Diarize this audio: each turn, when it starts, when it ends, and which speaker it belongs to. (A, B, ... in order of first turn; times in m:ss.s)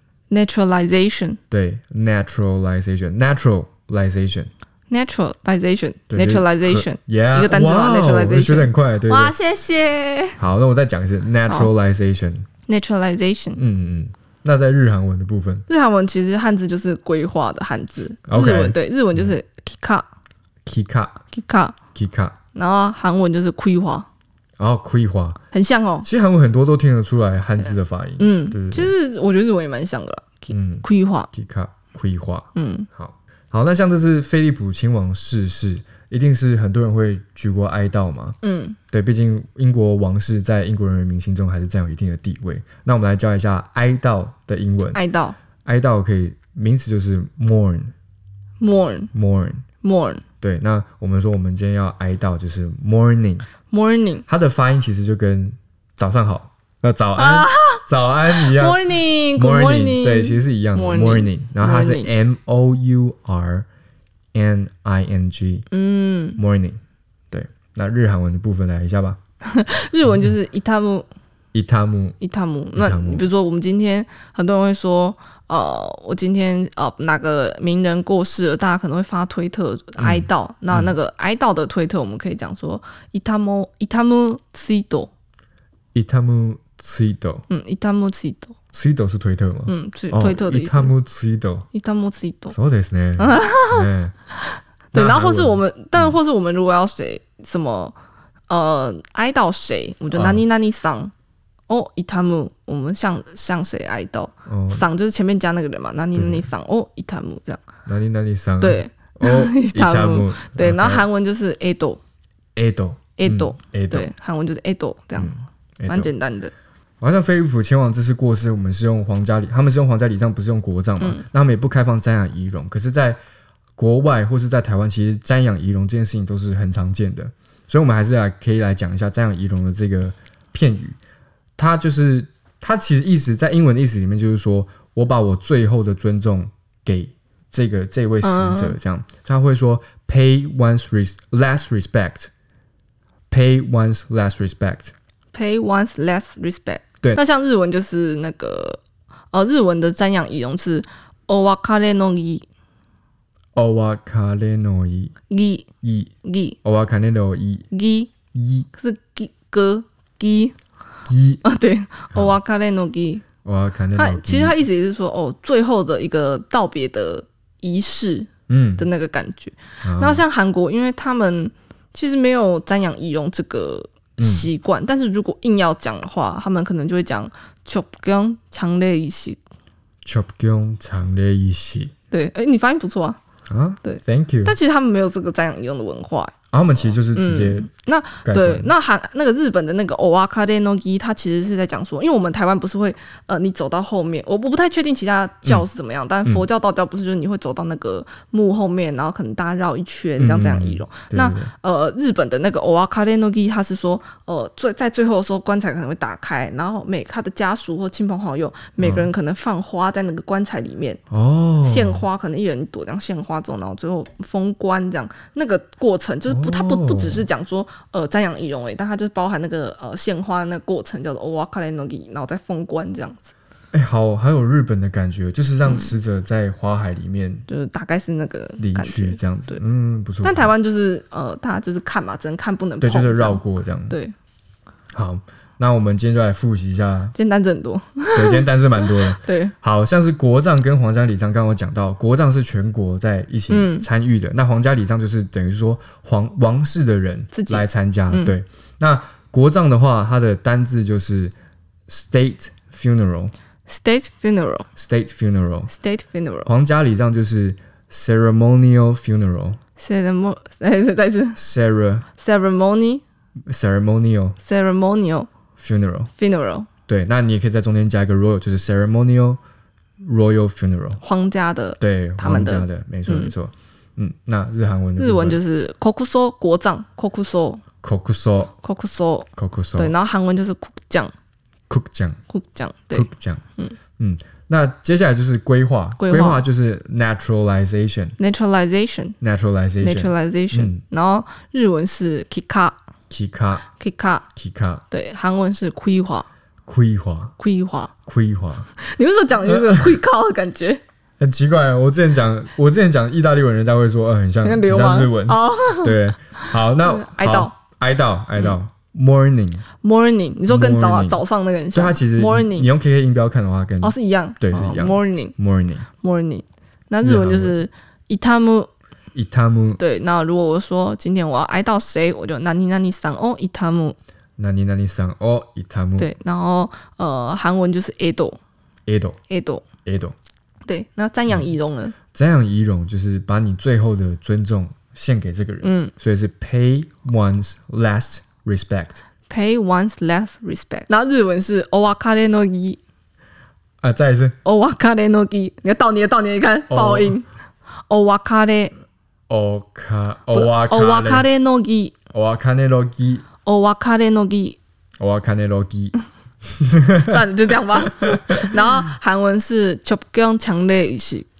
0:00.3-0:01.4 A
0:01.5-0:04.5 B
0:04.9-0:10.4 A
0:06.1-0:09.3 B
0:10.4-0:12.5 B
0:11.5-0:11.7 A
0:12.7-0:13.6 A
0:13.6-0:15.7 B
0:15.7-0:20.1 A
0:18.3-0:19.3 B
0:20.6-0:21.2 B
0:21.3-0:21.8 A
0:22.0-0:22.4 B
0:22.5-0:24.1 A
0:24.6-0:25.4 B
0:25.5-0:26.1 A
0:26.0-0:28.9 B
0:28.2-0:31.3 A
0:30.5-0:38.4 B
0:32.6-0:32.9 A
0:38.4-0:38.8 A
0:38.9-0:45.0 B
0:44.9-0:45.4 A
0:45.6-0:47.9 B
0:48.6-0:49.1 A
0:49.1-0:49.6 B
0:49.8-0:50.2 A
0:50.4-0:53.5 B
0:53.7-0:54.2 A
0:54.3-1:03.7 B
0:57.2-0:57.8 A
0:58.4-1:02.1 A
1:04.3-1:05.7 B
1:05.7-1:06.4 A
1:06.4-1:06.8 B
1:07.3-1:09.2 B
1:09.4-1:11.1 A
1:11.5-1:12.2 B
1:12.2-1:25.1 A
1:12.8-1:13.3 B
1:20.0-1:20.9 B
1:25.9-1:27.5 B
1:27.5-1:28.6 A
1:28.7-1:31.7 B
1:29.7-1:30.9 A
1:31.7-1:32.6 A
1:32.5-1:34.1 B
1:33.2-1:33.9 A
1:34.9-1:38.0 A
1:34.9-1:36.2 B
1:38.5-1:41.1 A
1:40.1-1:40.4 B
1:41.7-1:47.6 A
1:44.5-1:44.9 B
1:46.2-1:46.5 B
1:47.9-1:51.1 B
1:48.6-1:52.0 A
1:52.6-1:54.1 B
1:53.2-1:55.3 A
1:55.2-1:56.1 B
1:55.9-1:56.5 A
1:57.0-2:03.2 B
2:01.0-2:01.2 A
2:03.8-2:11.0 B
2:11.6-2:22.3 B
2:18.2-2:18.8 A
2:23.3-2:24.9 B
2:25.3-2:28.8 A
2:29.3-2:32.5 A
2:33.6-2:35.1 B
2:35.3-2:35.7 A
2:35.8-2:36.1 B
2:36.2-2:36.6 A
2:36.6-2:37.7 B
2:37.7-2:38.1 A
2:38.3-2:38.7 B
2:38.7-2:40.6 A
2:41.1-2:41.4 B
2:41.4-2:43.2 A
2:42.1-2:42.4 B
2:43.4-2:44.6 B
2:44.0-2:59.4 A
2:48.5-2:48.9 B
2:49.8-2:50.2 B
2:54.2-2:54.5 B
3:00.0-3:01.9 B
3:02.1-3:03.2 A
3:03.5-3:04.6 B
3:03.8-3:06.3 A
3:06.5-3:07.7 B
3:06.9-3:31.0 A
3:08.2-3:08.7 B
3:20.2-3:21.5 B
3:28.8-3:29.1 B
3:31.1-3:32.1 B
3:31.6-3:43.3 A
3:36.3-3:37.3 B
3:43.7-3:47.5 B
3:45.6-3:45.9 A
3:47.5-3:49.6 A
3:48.6-3:50.5 B
3:50.2-3:54.1 A
3:52.8-3:54.0 B
3:54.9-3:57.2 B
3:57.1-3:59.5 A
3:58.1-4:11.3 B
4:03.5-4:03.9 A
4:07.3-4:08.4 A
4:11.9-4:13.3 B
4:13.7-4:14.7 A
4:14.8-4:15.7 B
4:15.7-4:16.5 A
4:16.5-4:19.6 B
4:19.8-4:21.4 A
4:21.4-4:22.1 B
4:22.2-4:23.0 A
4:23.5-4:24.4 B
4:24.4-4:25.3 A
4:25.6-4:26.1 B
4:26.2-4:26.7 A
4:26.9-4:29.4 B
4:30.0-4:31.0 B
4:31.0-4:33.3 A
4:31.8-4:35.4 B
4:35.0-4:37.6 A
4:37.8-4:38.5 B
4:38.6-4:41.1 A
4:39.4-4:39.9 B
4:41.7-4:42.2 B
4:42.3-4:43.8 A
4:42.9-4:43.4 B
4:44.0-4:48.2 B
4:46.0-4:46.4 A
4:48.2-4:49.2 A
4:49.2-4:50.8 B
4:49.8-4:52.8 A
4:53.1-4:53.7 B
4:53.7-4:54.3 A
4:54.4-4:54.8 B
4:54.9-4:56.3 A
4:56.7-4:57.4 B
4:57.4-4:57.9 A
4:58.1-4:58.7 B
4:58.8-5:00.8 A
4:59.5-5:00.0 B
5:01.2-5:09.7 B
5:04.4-5:07.5 A
5:09.8-5:12.7 A
5:10.5-5:11.2 B
5:11.7-5:15.9 B
5:13.8-5:15.4 A
5:16.0-5:18.7 A
5:17.0-5:17.6 B
5:19.1-5:19.8 B
5:19.8-5:24.0 A
5:24.4-5:26.1 B
5:26.0-5:28.4 A
5:28.9-5:29.2 B
5:29.3-5:29.6 A
5:29.8-5:30.2 B
5:30.7-5:31.9 A
5:32.1-5:39.0 B
5:35.6-5:35.9 A
5:39.3-5:42.8 A
5:43.8-5:44.4 B
5:44.4-5:47.3 A
5:46.7-5:47.2 B
5:47.9-5:48.7 A
5:49.3-5:51.3 B
5:50.3-5:52.0 A
5:52.1-5:53.3 B
5:53.4-5:54.6 A
5:55.0-5:56.0 B
5:56.5-5:57.2 B
5:57.0-6:01.3 A
5:58.0-5:58.4 B